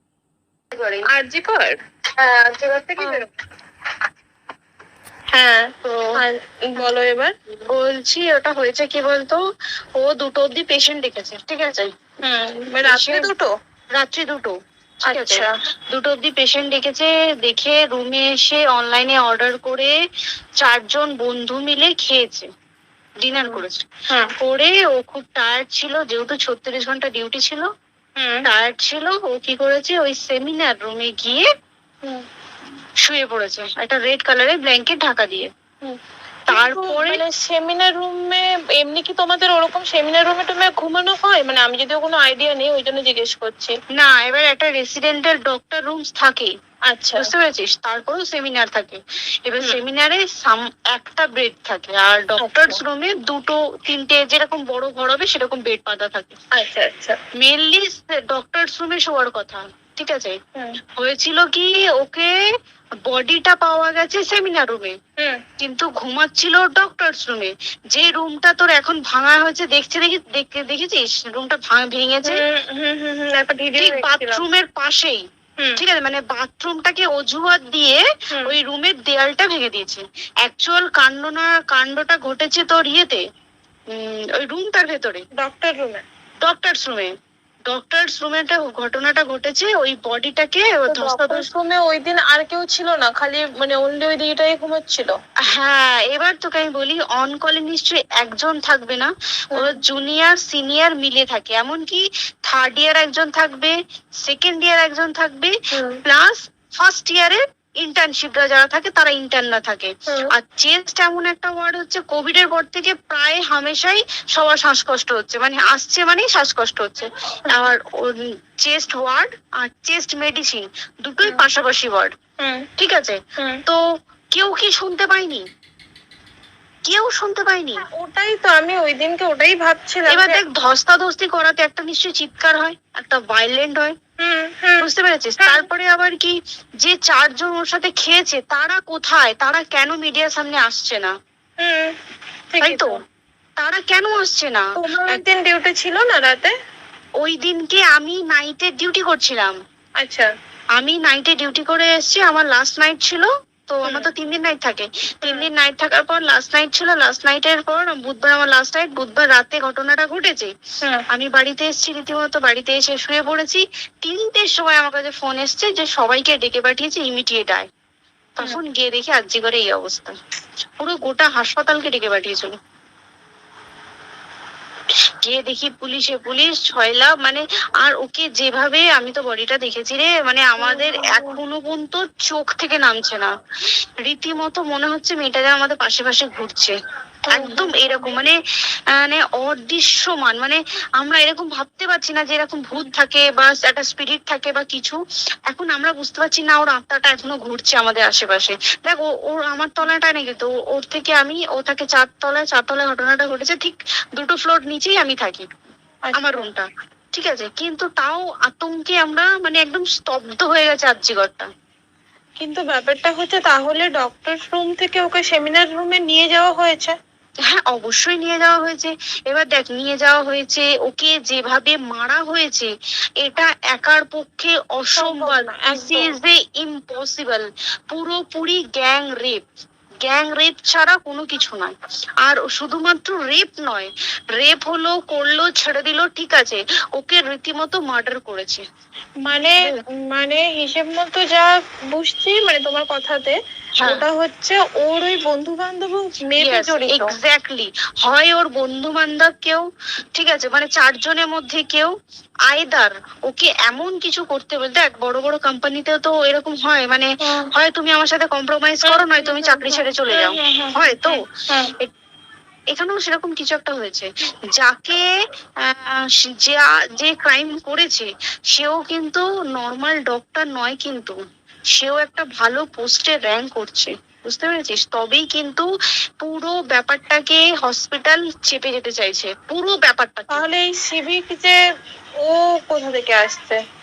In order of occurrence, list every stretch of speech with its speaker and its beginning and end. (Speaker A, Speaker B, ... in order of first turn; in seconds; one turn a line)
Speaker A: 0.7-1.1
Speaker B: 1.1-1.8
Speaker A: 2.2-3.3
Speaker B: 3.0-3.2
Speaker B: 5.3-7.3
Speaker A: 5.8-6.2
Speaker A: 7.7-9.4
Speaker A: 10.0-11.9
Speaker B: 12.2-13.5
Speaker A: 12.8-13.3
Speaker A: 14.0-14.6
Speaker B: 15.1-15.5
Speaker A: 15.1-19.9
Speaker A: 20.6-22.5
Speaker A: 23.2-23.9
Speaker B: 23.4-24.3
Speaker A: 24.4-27.7
Speaker B: 28.2-28.5
Speaker A: 28.4-31.5
Speaker A: 33.0-35.5
Speaker A: 36.5-37.2
Speaker B: 36.5-43.8
Speaker A: 44.0-46.5
Speaker B: 46.9-47.3
Speaker A: 47.2-56.4
Speaker B: 52.4-52.8
Speaker B: 56.5-57.2
Speaker A: 57.4-60.4
Speaker A: 61.0-62.3
Speaker A: 63.1-65.0
Speaker A: 65.6-72.4
Speaker B: 72.3-74.4
Speaker A: 73.8-75.2
Speaker A: 75.8-83.2
Speaker A: 83.9-85.2
Speaker B: 85.4-86.0
Speaker A: 86.4-87.1
Speaker A: 87.7-91.5
Speaker B: 90.9-95.2
Speaker A: 95.5-105.5
Speaker B: 99.5-99.8
Speaker B: 105.7-106.0
Speaker A: 106.1-122.1
Speaker B: 122.4-122.7
Speaker A: 122.8-123.8
Speaker A: 124.3-125.4
Speaker A: 126.9-127.8
Speaker B: 127.9-130.4
Speaker A: 130.1-134.0
Speaker B: 134.2-134.9
Speaker A: 134.8-141.1
Speaker B: 135.4-135.7
Speaker B: 141.6-141.9
Speaker B: 142.5-142.9
Speaker A: 142.6-143.0
Speaker A: 143.6-145.2
Speaker B: 144.8-146.5
Speaker A: 147.2-149.6
Speaker B: 150.0-150.3
Speaker A: 150.8-160.5
Speaker A: 161.1-167.7
Speaker A: 168.4-170.2
Speaker A: 170.8-172.5
Speaker A: 175.2-183.3
Speaker B: 180.6-181.4
Speaker A: 184.1-186.8
Speaker B: 187.3-187.9
Speaker A: 187.3-188.3
Speaker A: 188.9-195.0
Speaker A: 195.5-205.5
Speaker B: 206.1-206.5
Speaker A: 206.1-211.5
Speaker B: 212.4-217.0
Speaker A: 217.5-229.4
Speaker B: 225.0-226.1
Speaker A: 230.0-238.6
Speaker B: 239.2-247.1
Speaker A: 243.8-244.0
Speaker A: 246.4-251.9
Speaker A: 252.5-261.2
Speaker B: 257.2-257.5
Speaker B: 258.9-261.7
Speaker A: 262.7-265.0
Speaker A: 265.6-271.2
Speaker A: 271.8-275.7
Speaker A: 276.2-280.5
Speaker B: 280.3-281.6
Speaker B: 282.2-283.6